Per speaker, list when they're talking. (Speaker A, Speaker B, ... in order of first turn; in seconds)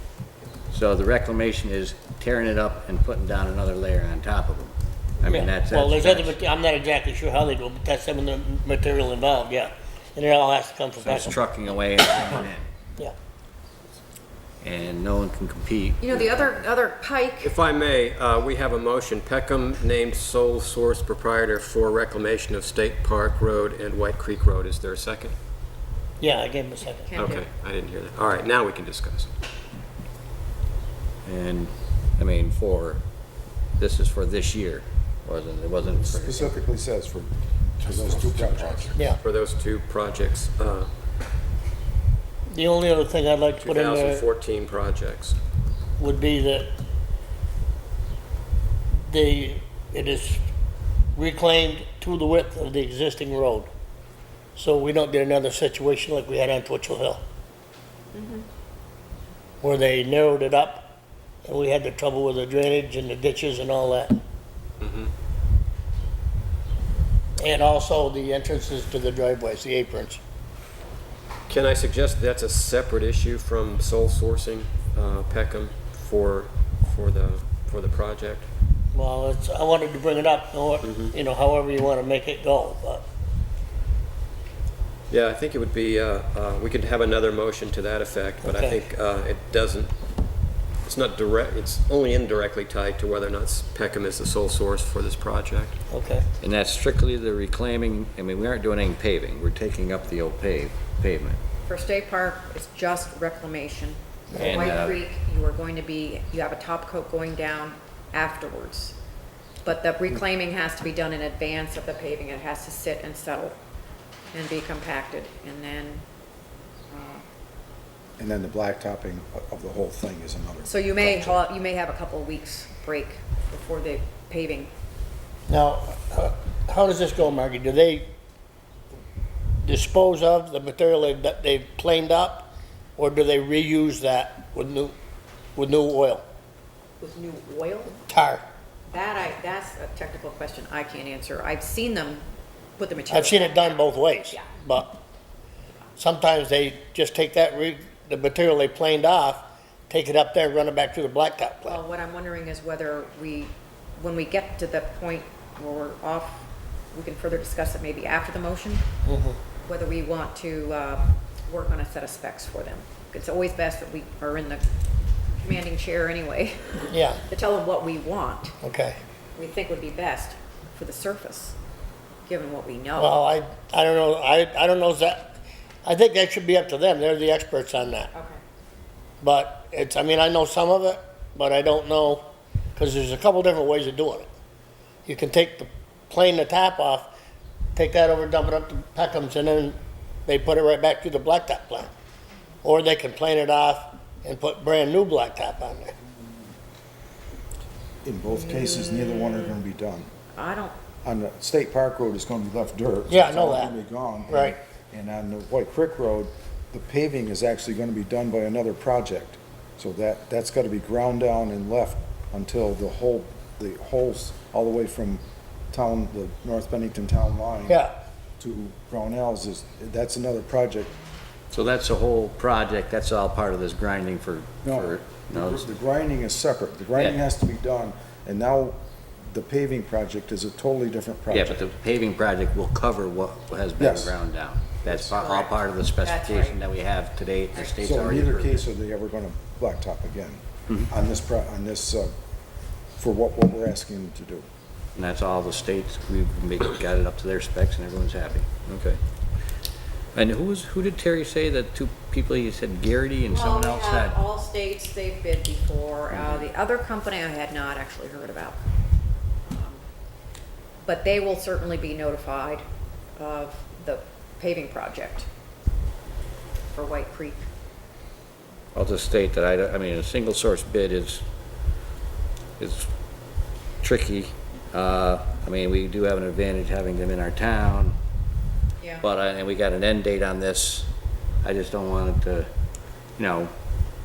Speaker A: 0.7-6.4, 11.0-12.7, 14.6-16.6, 31.2-33.0, 33.8-36.5, 96.4-101.4, 104.3-105.0, 221.5-225.7, 231.3-238.6, 244.9-249.0, 250.1-254.2, 256.1-256.5, 268.7-271.2, 272.6-272.9, 273.8-277.9, 279.0-280.9, 281.4-282.5, 283.2-283.5
Speaker B: 5.2-11.4, 26.2-27.1, 42.5-44.2, 46.0-46.7, 49.0-50.4, 51.1-53.7, 54.5-57.2, 59.6-64.2, 67.4-70.2, 78.9-83.0, 88.4-88.9, 95.9-96.2, 125.5-128.1, 129.6-134.9, 135.6-136.2, 138.1-138.4, 143.1-145.0, 146.0-151.8, 159.0-159.4, 166.9-167.2, 168.6-169.0, 173.0-178.1, 179.2-184.3, 185.1-187.1, 187.8-191.9, 192.6-195.9, 203.1-203.7, 204.3-204.6, 217.7-217.9
Speaker C: 16.0-17.5, 27.0-27.4, 58.1-58.5, 101.7-109.0, 109.6-113.6, 114.3-116.0, 116.9-117.2, 120.6-124.7, 137.0-137.9, 138.9-142.2, 142.8-144.4, 151.7-158.8, 159.6-164.6, 165.4-168.5, 169.3-171.6, 172.2-173.2, 178.1-178.4, 198.3-199.6, 200.3-200.7, 234.8-236.6, 253.3-258.6, 259.4-259.8, 260.8-262.6, 263.2-265.3, 266.7-267.5, 278.8-279.1
Speaker D: 17.4-25.3, 27.1-29.3, 37.8-40.9, 43.6-45.4, 64.8-65.1, 71.5-78.5, 80.8-81.1, 85.1-89.9, 90.8-95.8
Speaker E: 36.0-39.0, 118.2-121.4, 198.0-200.1, 201.0-217.8, 218.4-220.9, 224.6-231.6, 233.8-234.2, 237.8-242.1, 243.0-244.4